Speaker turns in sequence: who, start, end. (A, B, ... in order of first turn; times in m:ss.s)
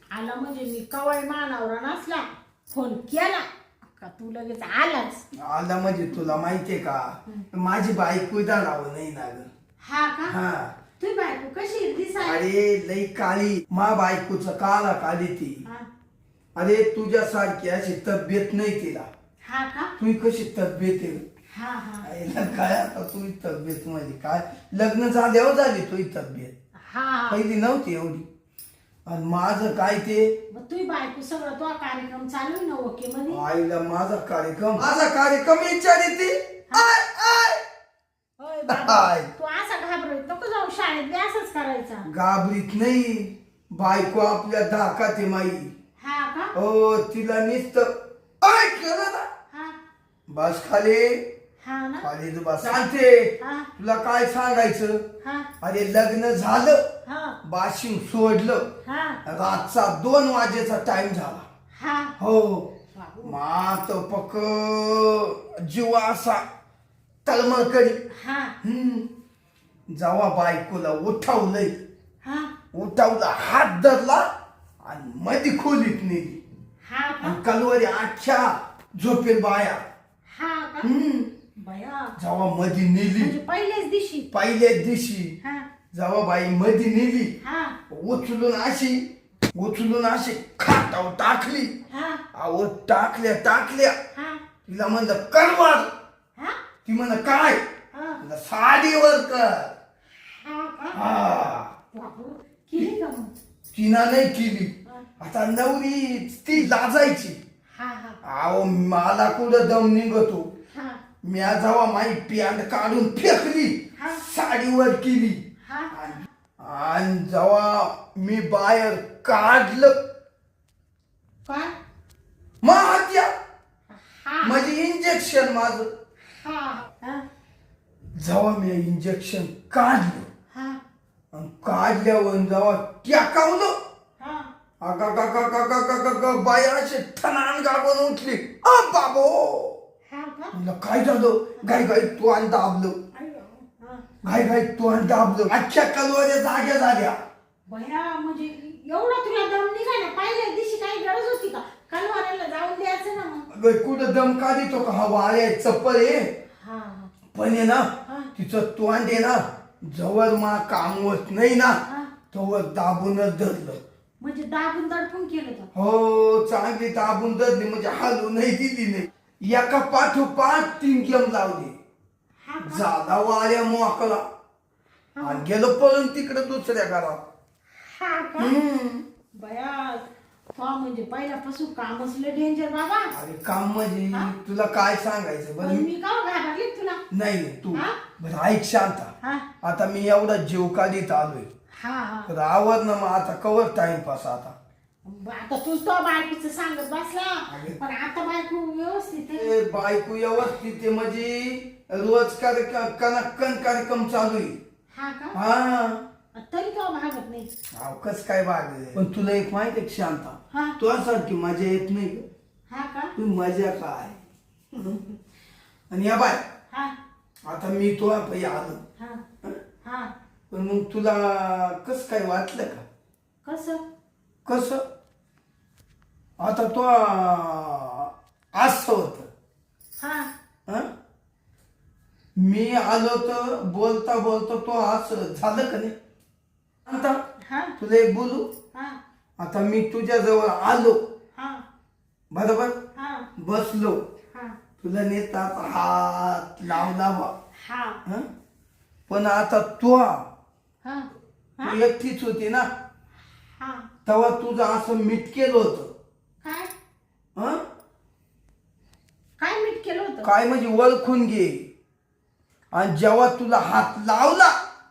0:00.1-0:05.2 A
0:05.4-0:09.5 B
0:09.8-0:10.4 A
0:10.3-0:10.8 B
0:11.0-0:12.4 A
0:12.2-0:15.6 B
0:16.6-0:19.1 B
0:19.4-0:19.9 A
0:20.0-0:21.2 B
0:21.5-0:22.1 A
0:22.0-0:26.5 B
0:26.8-0:27.4 A
0:27.3-0:28.3 B
0:29.1-0:30.4 B
0:30.5-0:33.4 A
0:33.3-0:37.6 B
0:38.4-0:42.1 A
0:38.7-0:39.3 B
0:42.1-0:45.7 B
0:46.0-0:46.6 A
0:46.6-0:49.3 B
0:49.5-0:49.8 A
0:50.3-0:51.3 B
0:51.6-0:52.1 A
0:52.0-0:55.0 B
0:53.4-0:53.7 A
0:55.2-0:55.5 A
0:55.6-0:56.9 B
0:57.1-0:57.4 A
0:57.4-0:58.7 B
0:58.8-0:59.2 A
0:59.2-1:01.4 B
1:01.8-1:02.2 A
1:02.2-1:06.4 B
1:02.9-1:03.4 A
1:07.2-1:08.0 B
1:08.1-1:08.6 A
1:08.6-1:09.1 B
1:09.9-1:11.8 B
1:12.2-1:12.5 A
1:12.7-1:16.4 B
1:16.8-1:17.4 A
1:17.2-1:19.8 B
1:20.3-1:20.9 A
1:20.8-1:21.3 B
1:21.6-1:22.2 A
1:22.2-1:23.4 B
1:23.2-1:24.3 A
1:24.3-1:25.4 B
1:25.4-1:25.7 A
1:25.9-1:27.4 B
1:27.4-1:27.8 A
1:27.9-1:31.8 B
1:31.9-1:32.2 A
1:32.3-1:34.0 B
1:34.1-1:34.4 A
1:34.6-1:35.9 B
1:36.8-1:37.6 B
1:37.9-1:38.2 A
1:38.2-1:39.8 B
1:40.3-1:41.0 A
1:40.9-1:41.7 B
1:41.9-1:43.4 A
1:43.7-1:47.4 B
1:47.7-1:48.2 A
1:48.2-1:50.5 B
1:50.7-1:51.0 A
1:51.2-2:00.1 B
1:54.0-1:54.2 A
1:55.6-1:56.2 A
2:01.4-2:01.7 A
2:02.6-2:03.3 B
2:03.9-2:04.7 A
2:04.4-2:05.9 B
2:06.3-2:07.2 A
2:08.2-2:10.3 B
2:10.5-2:10.8 A
2:11.3-2:13.8 B
2:14.2-2:14.5 A
2:14.8-2:19.8 B
2:20.1-2:20.6 A
2:20.5-2:23.0 B
2:23.1-2:24.2 A
2:24.2-2:27.2 B
2:27.7-2:33.5 A
2:33.5-2:36.3 B
2:36.6-2:37.1 A
2:37.3-2:43.8 B
2:38.1-2:38.3 A
2:41.9-2:42.1 A
2:44.2-2:45.7 A
2:45.7-2:51.8 B
2:52.4-2:52.9 A
2:52.6-2:54.3 B
2:55.2-2:55.4 A
2:55.2-2:57.2 B
2:57.8-2:58.6 A
2:58.4-2:59.0 B
2:59.3-3:03.1 A
3:03.1-3:05.9 B
3:04.1-3:04.4 A
3:05.6-3:07.0 A
3:07.1-3:11.5 B
3:07.7-3:08.0 A
3:09.2-3:09.5 A
3:11.7-3:12.3 A
3:12.3-3:14.6 B
3:15.0-3:19.5 A
3:17.5-3:17.8 B
3:19.4-3:24.6 B
3:24.9-3:25.4 A
3:25.3-3:26.0 B
3:26.3-3:27.5 A
3:27.7-3:32.3 B
3:30.5-3:30.8 A
3:32.7-3:33.2 A
3:33.2-3:34.2 B
3:34.7-3:35.0 B
3:35.9-3:36.4 B
3:36.7-3:37.0 A
3:37.4-3:38.8 B
3:39.0-3:39.2 A
3:39.8-3:40.1 A
3:40.5-3:42.8 B
3:43.4-3:43.8 A
3:44.4-3:44.8 B
3:46.4-3:49.3 B
3:50.0-3:50.3 A
3:52.4-3:56.0 B
3:56.8-3:57.2 B
3:57.4-3:57.8 A
3:57.8-3:58.5 B
3:58.7-3:59.0 A
3:59.4-4:01.1 B
4:01.4-4:01.6 A
4:02.3-4:02.8 B
4:02.9-4:03.3 A
4:03.4-4:04.0 B
4:04.8-4:07.3 B
4:07.6-4:08.0 A
4:09.1-4:10.3 B
4:10.8-4:11.8 A
4:11.6-4:12.7 B
4:13.6-4:13.9 A
4:14.1-4:15.9 B
4:16.4-4:16.7 A
4:17.4-4:17.6 B
4:19.4-4:20.3 A
4:20.2-4:21.7 B
4:22.7-4:24.6 B